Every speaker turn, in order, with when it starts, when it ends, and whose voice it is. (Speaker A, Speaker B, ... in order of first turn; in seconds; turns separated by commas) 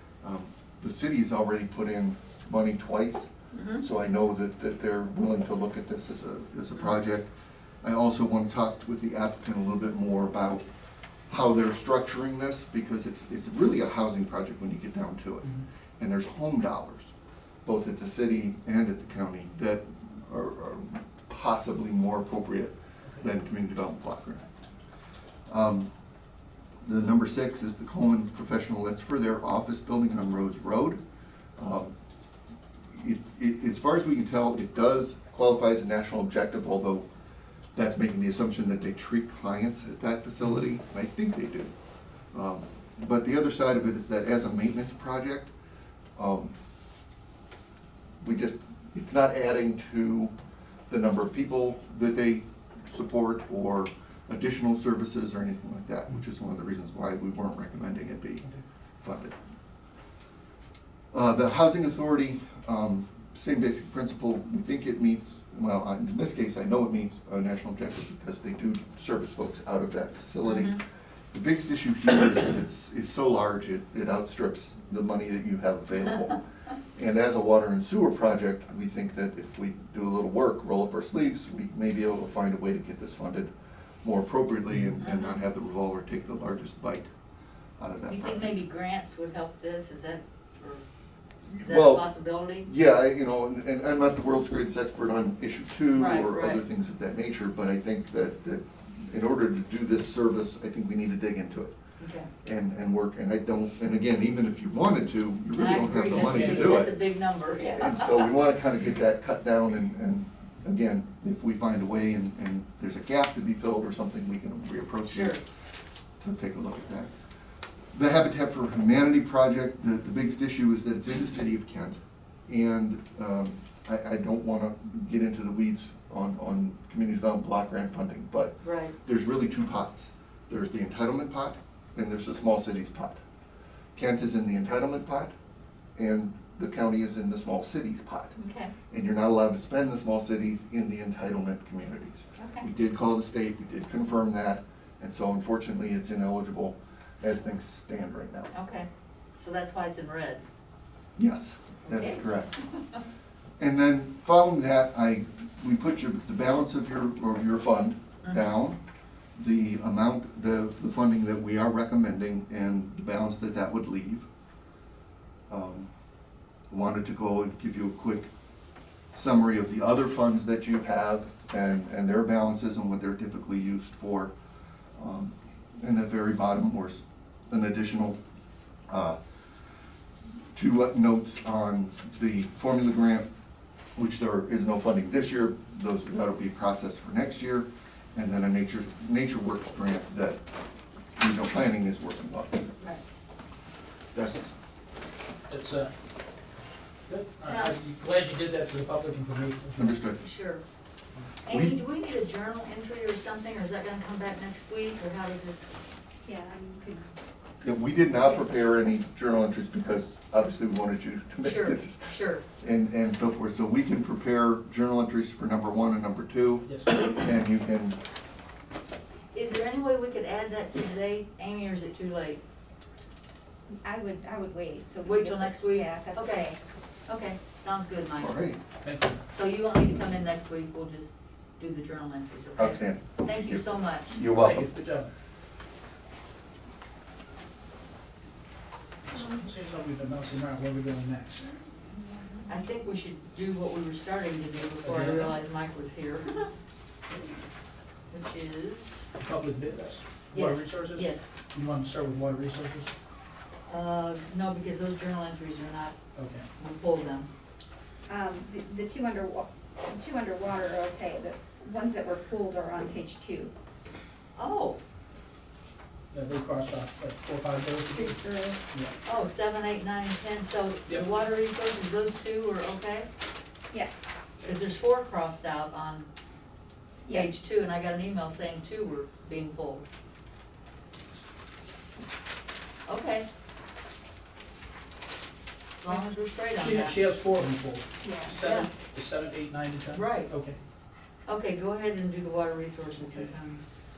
Speaker A: 0.2-3.3, Speaker B: 3.5-3.9, Speaker A: 3.8-7.3, Speaker A: 7.8-10.7, Speaker A: 11.3-17.1, Speaker A: 17.6-24.5, Speaker A: 25.5-25.9, Speaker A: 26.8-31.0, Speaker A: 31.6-31.9, Speaker A: 32.9-37.1, Speaker A: 37.8-41.7, Speaker A: 42.3-45.5, Speaker A: 46.2-46.5, Speaker A: 48.2-50.3, Speaker A: 50.9-58.5, Speaker A: 59.0-59.4, Speaker A: 61.1-76.4, Speaker B: 70.5-70.8, Speaker A: 77.0-83.5, Speaker A: 84.0-87.1, Speaker B: 85.0-85.4, Speaker A: 87.8-88.6, Speaker B: 88.1-90.8, Speaker A: 91.5-92.1, Speaker B: 91.6-92.7, Speaker A: 92.6-101.8, Speaker B: 96.0-96.6, Speaker B: 102.0-102.3, Speaker A: 102.4-107.0, Speaker B: 105.5-108.3, Speaker C: 106.1-106.8, Speaker A: 107.6-115.4, Speaker B: 115.1-115.4, Speaker A: 116.2-117.1, Speaker A: 117.9-133.2, Speaker B: 128.6-128.9, Speaker A: 134.0-135.3, Speaker A: 136.0-138.4, Speaker B: 138.4-138.7, Speaker A: 138.9-148.5, Speaker B: 142.4-142.7, Speaker B: 148.5-148.9, Speaker B: 149.4-150.4, Speaker A: 151.2-152.5, Speaker B: 151.9-152.3, Speaker A: 153.6-158.8, Speaker A: 159.4-164.3, Speaker A: 165.5-165.9, Speaker A: 166.7-168.3, Speaker A: 169.1-174.3, Speaker A: 175.0-178.2, Speaker A: 178.9-179.2, Speaker A: 180.6-183.3, Speaker A: 184.0-190.4, Speaker A: 191.2-192.7, Speaker A: 194.1-194.5, Speaker C: 195.5-195.9, Speaker C: 197.1-199.9, Speaker B: 197.5-197.7, Speaker A: 199.8-200.3, Speaker B: 200.2-200.6, Speaker B: 201.4-205.8, Speaker A: 201.5-201.8, Speaker D: 206.2-207.1, Speaker A: 207.6-218.0, Speaker B: 211.4-212.4, Speaker C: 216.7-216.9, Speaker B: 219.3-222.4, Speaker D: 223.8-226.6, Speaker B: 225.0-226.6, Speaker B: 227.1-228.4, Speaker A: 228.2-228.6, Speaker C: 228.8-229.2, Speaker B: 229.3-234.1, Speaker A: 232.6-234.7, Speaker C: 234.2-235.1, Speaker C: 239.1-241.5, Speaker B: 242.4-246.5, Speaker C: 244.8-245.3, Speaker B: 248.1-249.1, Speaker C: 249.2-252.9, Speaker B: 250.3-251.3, Speaker B: 253.7-255.9, Speaker C: 256.1-256.5, Speaker B: 256.6-257.3, Speaker D: 258.1-263.5, Speaker B: 264.4-264.8, Speaker C: 266.1-268.2, Speaker D: 267.9-268.6, Speaker B: 269.1-273.1, Speaker B: 274.4-276.1, Speaker D: 277.1-277.3, Speaker B: 277.1-279.9, Speaker B: 282.9-283.3, Speaker B: 285.8-287.0, Speaker C: 286.6-290.6, Speaker D: 288.0-288.4, Speaker B: 288.4-288.7, Speaker B: 289.9-290.3, Speaker B: 291.3-293.6